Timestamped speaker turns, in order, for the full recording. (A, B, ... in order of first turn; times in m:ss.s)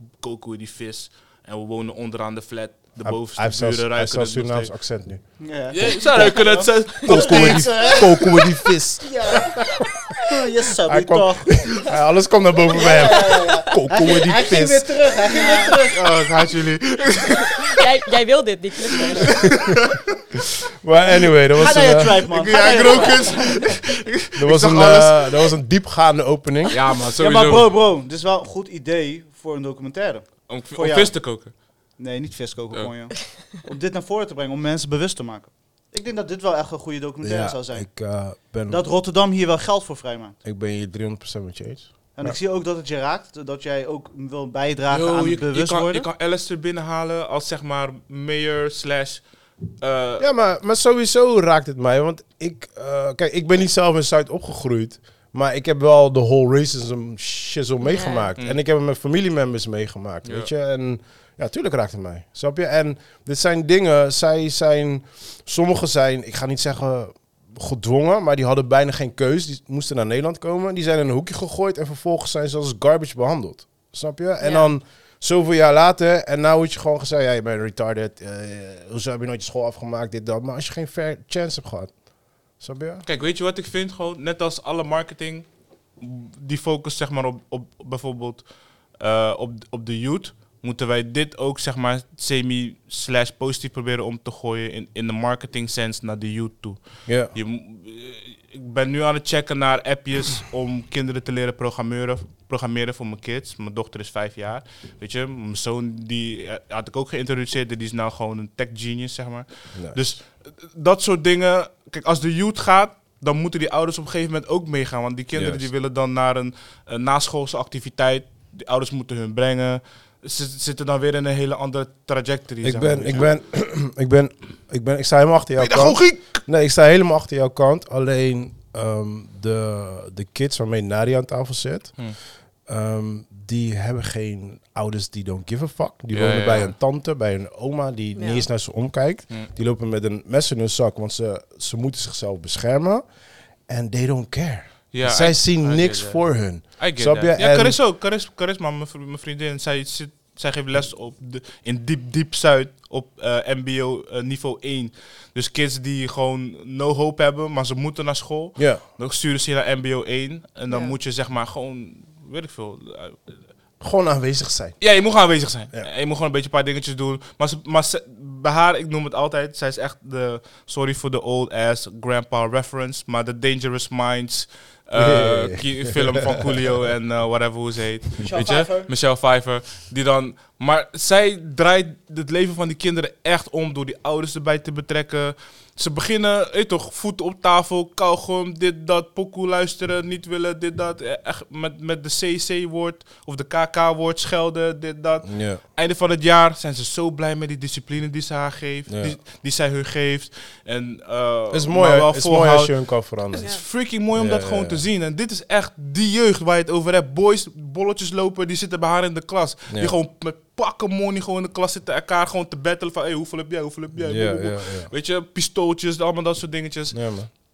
0:00.1-0:04.7 A
0:03.0-0:05.2 B
0:05.4-0:08.4 C
0:05.7-0:08.1 A
0:06.4-0:09.6 B
0:09.0-0:11.8 C
0:10.8-0:14.9 B
0:12.7-0:16.1 C
0:13.3-0:13.6 D
0:15.2-0:15.8 D
0:15.9-0:17.8 A
0:17.6-0:19.5 D
0:19.3-0:20.0 A
0:20.8-0:22.2 B
0:21.5-0:23.5 C
0:22.3-0:25.5 A
0:22.9-0:23.3 D
0:24.3-0:26.8 B
0:26.6-0:27.7 A
0:27.2-0:31.3 C
0:30.5-0:31.6 A
0:32.0-0:37.9 C
0:37.2-0:38.9 B
0:38.7-0:40.4 C
0:40.4-0:42.4 B
0:42.1-0:46.1 C
0:44.9-0:50.3 A
0:50.2-1:22.0 B
0:57.8-0:58.3 D
1:00.2-1:00.5 A
1:14.4-1:14.7 D
1:22.5-1:23.0 B
1:23.0-2:03.3 A
1:37.1-1:37.3 B
1:49.7-1:50.0 B
1:55.3-1:55.6 B
2:02.6-2:23.0 B
2:05.6-2:06.4 A
2:16.1-2:16.7 A
2:18.1-2:18.4 D
2:23.7-2:27.8 B
2:24.9-2:43.4 A
2:38.6-2:38.8 B
2:40.7-2:40.9 D
2:43.8-2:44.9 B
2:44.8-3:37.0 A
2:55.0-2:56.4 B
2:58.2-2:58.9 C
3:15.2-3:15.6 B
3:18.9-3:19.2 B
3:21.5-3:24.8 B
3:23.3-3:23.6 D
3:29.7-3:29.9 B
3:34.0-3:34.9 B
3:36.9-3:37.3 B